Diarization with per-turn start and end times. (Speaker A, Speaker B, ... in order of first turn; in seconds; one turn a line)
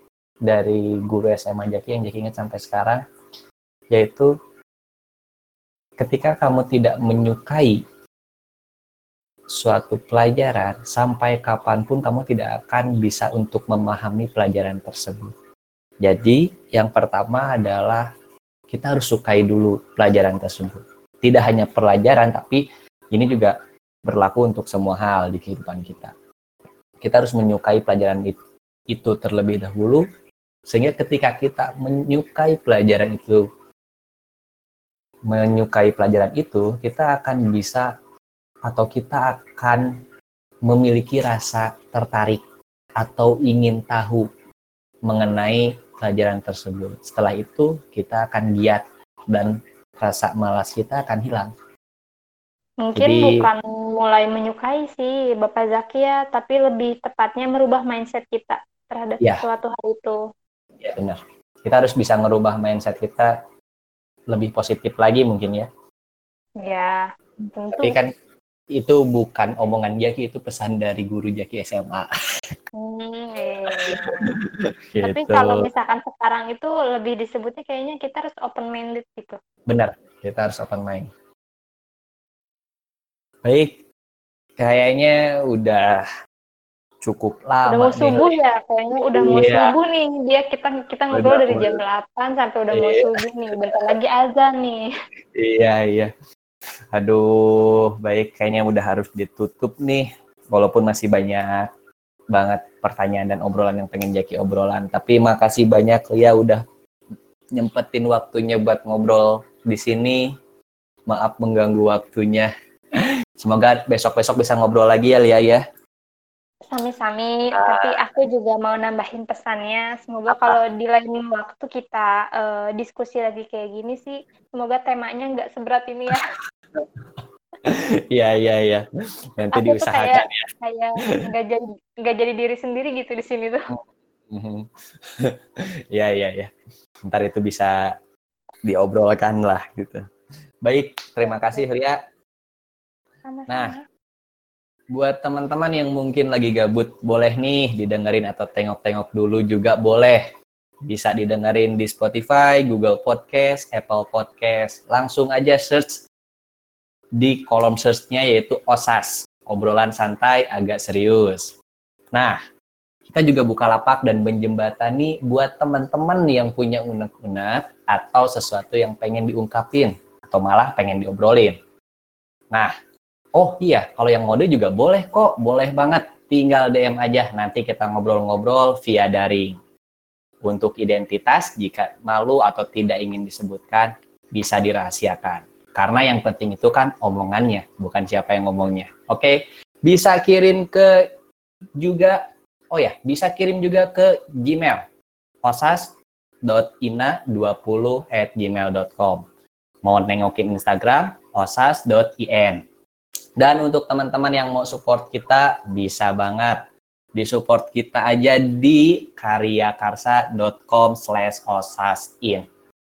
Speaker A: 0.5-3.0
Speaker A: 3.9-4.3
Speaker A: 6.0-7.8
Speaker A: 9.6-15.3
Speaker A: 16.0-18.1
Speaker A: 18.7-26.1
Speaker A: 27.0-28.4
Speaker A: 28.9-30.0
Speaker A: 30.7-33.5
Speaker A: 35.3-37.9
Speaker A: 38.7-39.9
Speaker A: 40.6-42.4
Speaker A: 43.0-44.3
Speaker A: 45.1-51.5
Speaker B: 52.8-60.2
Speaker A: 53.0-53.4
Speaker A: 60.8-63.3
Speaker A: 64.3-65.7
Speaker B: 66.6-68.0
Speaker A: 67.8-68.1
Speaker A: 68.7-72.1
Speaker B: 72.8-74.3
Speaker A: 73.8-74.3
Speaker A: 74.9-75.7
Speaker B: 75.0-79.4
Speaker A: 79.7-81.1
Speaker A: 83.4-83.8
Speaker A: 84.6-86.0
Speaker A: 87.0-88.3
Speaker B: 87.7-94.8
Speaker A: 89.2-89.7
Speaker A: 91.1-91.8
Speaker A: 92.7-93.2
Speaker A: 95.3-96.1
Speaker A: 96.9-101.7
Speaker A: 102.3-106.6
Speaker A: 107.5-110.2
Speaker A: 111.1-115.6
Speaker B: 116.7-126.2
Speaker A: 117.5-117.9
Speaker A: 120.3-120.6
Speaker A: 126.8-128.8
Speaker A: 129.4-130.4
Speaker B: 129.5-133.7
Speaker A: 133.7-135.4
Speaker A: 135.9-136.5
Speaker A: 137.1-137.8
Speaker A: 138.6-140.0
Speaker A: 140.6-142.0
Speaker B: 141.3-141.6
Speaker B: 143.2-143.8
Speaker A: 143.5-143.7
Speaker A: 144.9-150.2
Speaker A: 150.9-156.0
Speaker A: 157.2-161.5
Speaker A: 162.1-162.4
Speaker A: 163.1-171.6
Speaker A: 173.3-179.6
Speaker A: 180.4-191.0
Speaker A: 191.8-192.2
Speaker A: 192.7-194.8
Speaker A: 195.4-199.2
Speaker A: 199.8-202.6
Speaker A: 203.4-206.6
Speaker A: 207.1-212.4